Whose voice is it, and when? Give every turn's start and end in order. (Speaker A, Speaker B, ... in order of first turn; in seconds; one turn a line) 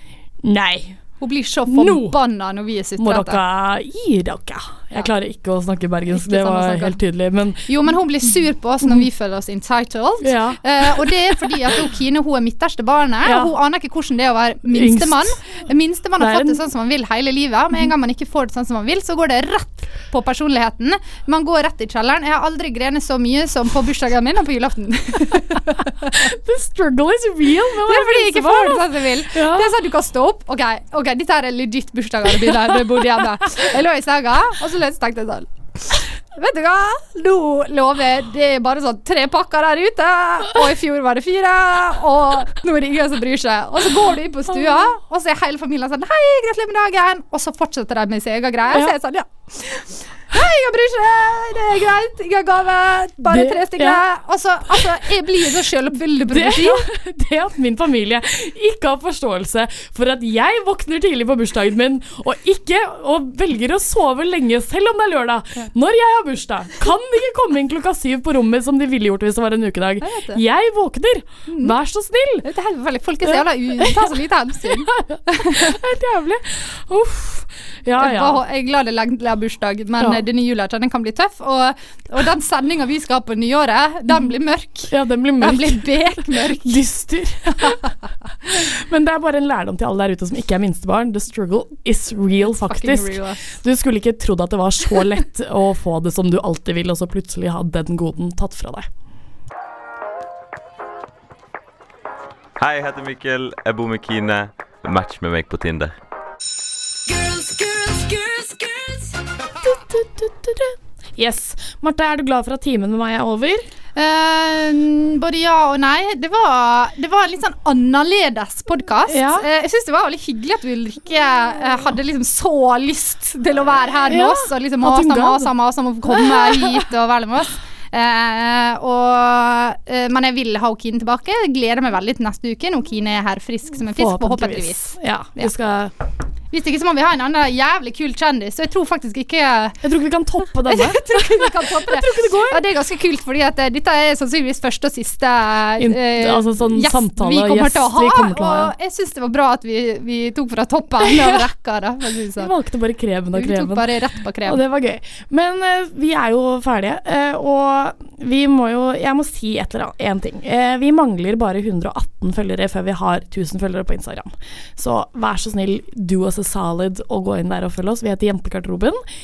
Speaker A: 0.4-1.0
Speaker B: 1.2-3.4
Speaker A: 1.7-2.2
Speaker A: 3.0-7.7
Speaker B: 6.1-7.0
Speaker B: 7.7-26.3
Speaker A: 10.2-11.5
Speaker A: 13.2-13.5
Speaker A: 14.7-15.4
Speaker A: 16.2-16.6
Speaker A: 26.1-29.7
Speaker B: 27.9-56.8
Speaker A: 53.3-54.0
Speaker A: 54.7-55.0
Speaker A: 56.3-72.5
Speaker B: 70.0-70.4
Speaker B: 71.5-71.8
Speaker B: 72.4-75.8
Speaker A: 73.2-74.1
Speaker A: 74.7-78.4
Speaker B: 78.0-86.8
Speaker A: 84.9-98.9
Speaker B: 92.5-93.5
Speaker C: 102.6-105.9
Speaker A: 109.6-113.7
Speaker B: 114.0-135.5
Speaker A: 119.1-119.5
Speaker A: 124.1-125.5
Speaker A: 126.0-126.9
Speaker A: 134.0-135.9
Speaker B: 136.5-139.8
Speaker A: 139.8-142.7
Speaker B: 140.7-152.5
Speaker A: 145.8-148.7
Speaker A: 151.0-151.5
Speaker A: 152.4-153.9
Speaker B: 153.3-154.6
Speaker A: 154.4-169.0